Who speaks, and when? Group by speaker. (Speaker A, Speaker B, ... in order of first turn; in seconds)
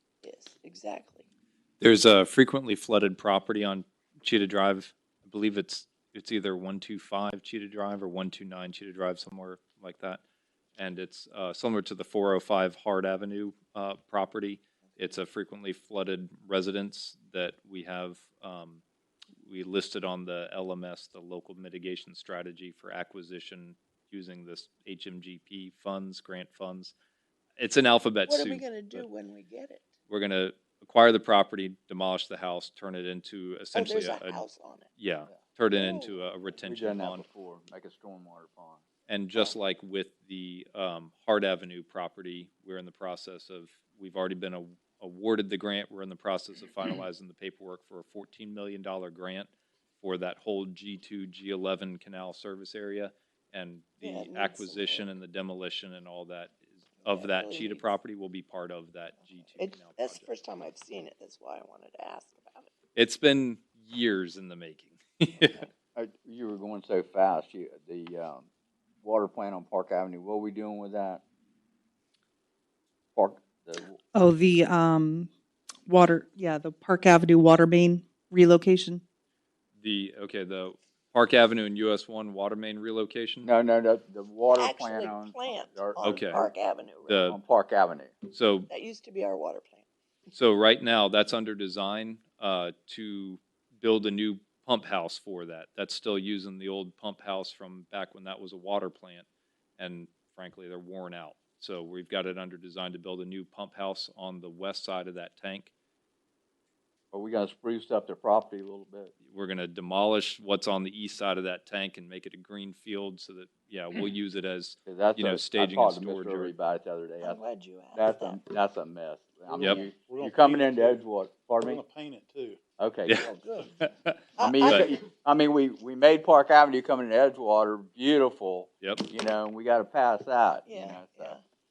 Speaker A: 0.2-1.2, 28.3-29.9, 33.7-34.9, 35.8-36.1, 54.0-55.1, 57.0-57.9, 59.6-62.7, 84.5-87.2, 88.7-89.8, 117.2-118.4, 123.2-123.7, 124.4-124.8, 130.7-131.4
Speaker B: 1.8-10.2, 10.8-18.8, 19.4-26.9, 27.6-29.1, 30.1-34.4, 35.0-37.2, 39.1-49.5, 50.0-60.2, 63.0-65.7, 79.8-83.5, 86.0-86.4, 87.1-87.4, 88.3-88.7, 90.3-99.3, 99.8-105.7, 109.3-116.5
Speaker C: 36.6-38.8, 66.0-68.5, 69.0-71.2, 73.2-74.0, 83.4-86.5, 87.2-88.2, 107.1-109.1, 114.9-117.4, 117.9-121.8, 122.8-123.3, 124.4-131.4
Speaker D: 74.2-75.3, 75.9-79.0
Speaker E: 119.5-122.6